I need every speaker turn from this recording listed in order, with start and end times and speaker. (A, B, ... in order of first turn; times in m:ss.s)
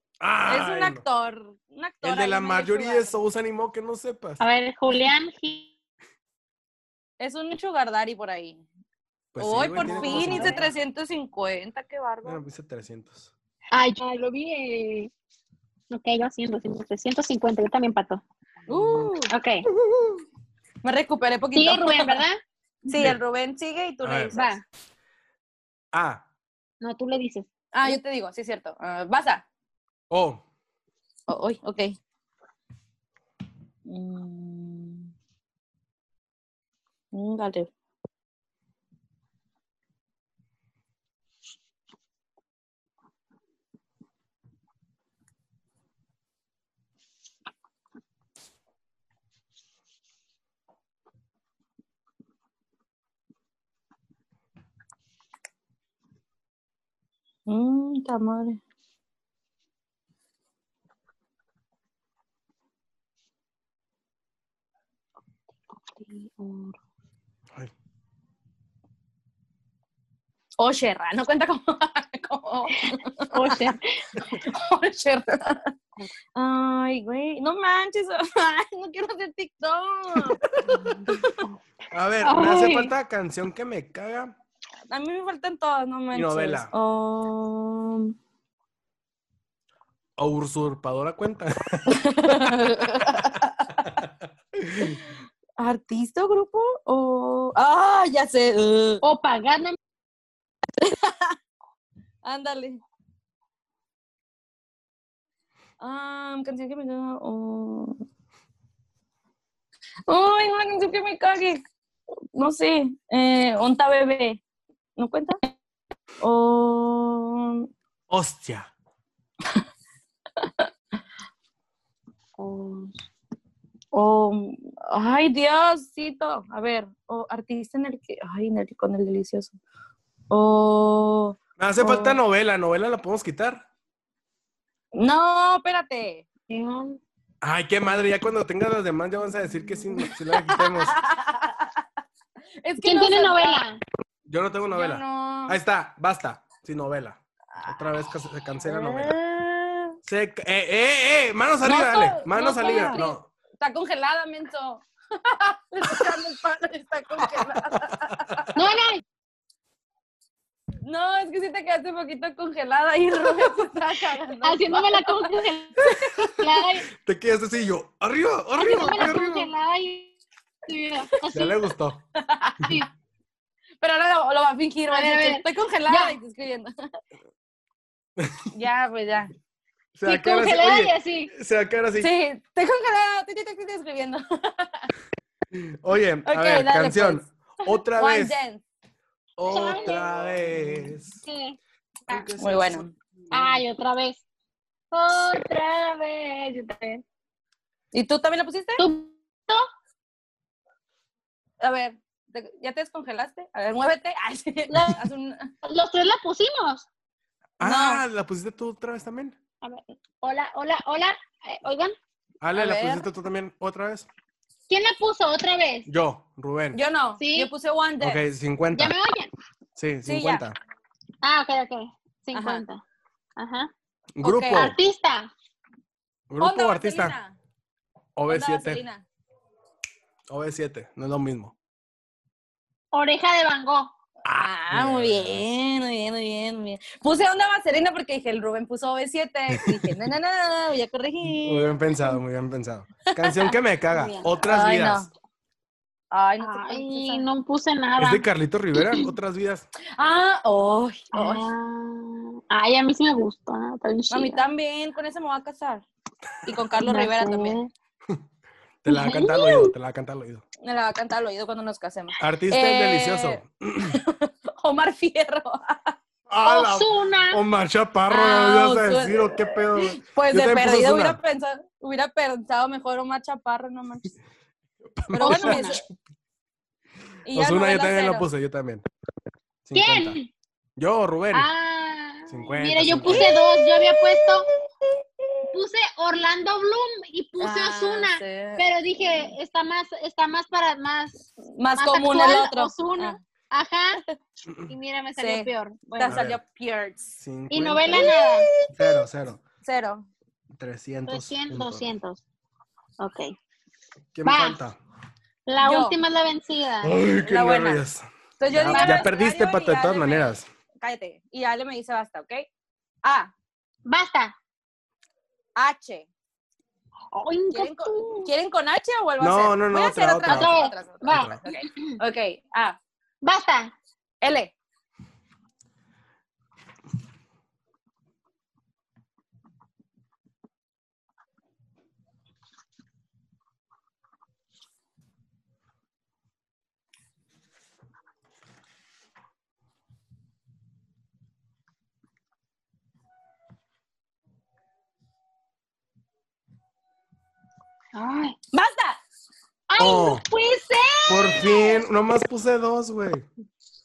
0:00.2-0:01.0 A
0:00.5-0:03.2 B
0:02.0-0:04.4 A
0:04.4-0:05.7 C
0:07.2-0:08.6 B
0:09.3-0:10.7 A
0:09.4-0:12.4 B
0:09.8-0:10.6 C
0:12.2-0:13.3 A
0:13.7-0:15.1 C
0:15.9-0:18.2 C
0:18.7-0:19.3 B
0:18.7-0:19.1 A
0:19.3-0:19.6 C
0:20.8-0:22.2 B
0:21.5-0:22.4 C
0:22.9-0:24.6 B
0:24.0-0:24.3 A
0:24.3-0:24.6 C
0:25.9-0:26.2 A
0:26.8-0:28.0 C
0:27.7-0:29.4 B
0:30.1-0:30.4 A
0:31.3-0:32.0 B
0:33.8-0:35.1 B
0:37.1-0:37.7 B
0:57.5-0:58.6 B
1:05.9-1:06.8 C
1:10.6-1:13.7 B
1:12.8-1:14.0 C
1:14.3-1:15.7 B
1:16.3-1:20.4 B
1:20.5-1:21.1 A
1:20.7-1:21.5 C
1:21.1-1:21.4 B
1:21.9-1:24.4 A
1:22.2-1:22.9 C
1:24.9-1:28.1 B
1:26.1-1:26.7 A
1:30.2-1:32.6 A
1:31.9-1:33.9 B
1:33.8-1:35.0 A
1:34.8-1:39.0 B
1:39.0-1:39.8 C
1:40.8-1:41.4 B
1:42.2-1:42.8 B
1:45.8-1:48.0 B
1:50.1-1:51.6 B
1:52.3-1:54.4 B
1:55.0-1:55.4 B
1:56.2-1:57.7 B
1:58.1-1:58.7 A
2:00.4-2:00.7 B
2:02.4-2:02.9 C
2:03.9-2:09.6 B
2:10.3-2:12.2 B
2:11.6-2:13.6 A
2:14.9-2:16.2 B
2:16.5-2:17.0 C
2:17.4-2:20.9 A
2:20.0-2:21.8 B
2:22.6-2:23.6 B
2:22.8-2:23.8 C
2:24.2-2:29.2 A
2:24.7-2:25.6 B
2:27.5-2:27.9 B
2:28.6-2:30.0 B
2:30.0-2:33.2 A
2:31.6-2:38.5 B
2:32.6-2:33.0 C
2:37.4-2:38.4 A
2:38.5-2:39.0 C
2:40.8-2:45.3 B
2:44.4-2:46.9 C
2:45.8-2:49.5 A
2:48.6-2:51.6 C
2:51.3-2:52.0 A
2:52.2-2:52.8 B
2:53.8-2:56.7 B
2:54.9-2:56.2 C
2:58.2-2:58.4 A
2:58.5-2:59.3 B
2:59.9-3:02.1 A
3:00.0-3:01.3 C
3:02.0-3:04.9 B
3:05.5-3:08.4 A
3:06.2-3:07.2 B
3:08.0-3:08.6 B
3:09.4-3:11.2 A
3:09.5-3:10.2 C
3:11.2-3:11.6 C
3:12.1-3:13.6 A
3:12.4-3:12.9 B
3:13.3-3:14.2 C
3:14.9-3:17.0 C
3:17.9-3:18.8 B
3:18.8-3:19.6 C
3:21.6-3:25.5 B
3:24.7-3:25.0 C
3:25.6-3:26.9 C
3:27.6-3:29.4 A
3:27.6-3:28.0 B
3:29.6-3:31.9 C
3:32.4-3:34.1 A
3:32.5-3:33.1 B
3:34.7-3:35.9 C
3:35.9-3:36.8 A
3:36.7-3:38.2 B
3:37.2-3:37.5 C
3:38.0-3:38.9 A
3:38.7-3:39.3 C
3:39.8-3:40.6 A
3:40.0-3:40.4 B
3:41.2-3:42.8 C
3:42.3-3:42.6 B
3:43.4-3:43.7 C
3:44.2-3:44.8 A
3:44.2-3:44.7 B
3:44.5-3:45.3 C
3:46.3-3:47.2 A
3:46.4-3:47.4 B
3:48.2-3:48.8 A
3:48.3-3:49.0 B
3:50.3-3:51.5 A
3:52.9-3:53.9 C
3:54.2-3:55.4 A
3:54.3-4:01.8 B
3:59.5-4:00.0 A
4:01.2-4:05.1 A
4:03.1-4:03.5 B
4:03.9-4:04.3 C
4:04.4-4:05.1 B
4:06.1-4:07.2 B
4:06.4-4:09.1 C
4:08.0-4:09.6 A
4:10.0-4:11.5 B
4:11.1-4:14.4 C
4:14.1-4:15.8 B
4:16.4-4:17.6 B
4:16.8-4:17.7 C
4:18.8-4:20.4 A
4:18.9-4:19.7 C
4:20.6-4:26.0 B
4:22.2-4:24.0 A
4:26.3-4:31.2 A
4:26.4-4:27.4 C
4:28.1-4:34.1 B
4:35.0-4:35.9 A
4:35.1-4:35.8 B
4:35.2-4:35.8 C
4:37.2-4:38.3 B
4:37.3-4:38.8 A
4:39.6-4:40.2 A
4:39.7-4:40.3 C
4:40.8-4:41.5 A
4:41.3-4:44.5 C
4:42.3-4:43.3 A
4:43.0-4:45.5 B
4:45.5-4:54.0 C
4:47.4-4:49.3 B
4:51.5-4:53.2 B
4:54.4-4:54.7 A
4:54.7-4:56.2 C
4:55.2-4:57.1 B
4:56.0-4:56.4 A
4:57.2-4:58.1 A
4:57.5-4:58.5 C
4:57.9-4:59.0 B
4:58.7-4:59.4 A
4:59.6-5:00.1 B
5:00.5-5:01.9 A
5:01.1-5:02.2 C
5:03.0-5:03.3 C
5:04.1-5:04.8 A
5:04.2-5:04.6 C
5:05.5-5:06.9 C
5:05.6-5:06.0 B
5:06.8-5:10.4 A
5:07.2-5:07.8 B
5:08.4-5:12.5 B
5:08.7-5:09.1 C
5:13.0-5:13.3 B
5:13.8-5:14.3 C
5:15.6-5:16.1 B
5:17.1-5:18.3 C
5:17.5-5:22.8 B
5:19.2-5:21.4 A
5:20.2-5:22.0 C
5:23.2-5:23.7 C
5:24.2-5:24.5 B
5:47.9-5:48.4 C
5:48.5-5:49.0 B
5:49.7-5:51.8 C
5:49.8-5:50.2 A
5:51.1-5:53.3 A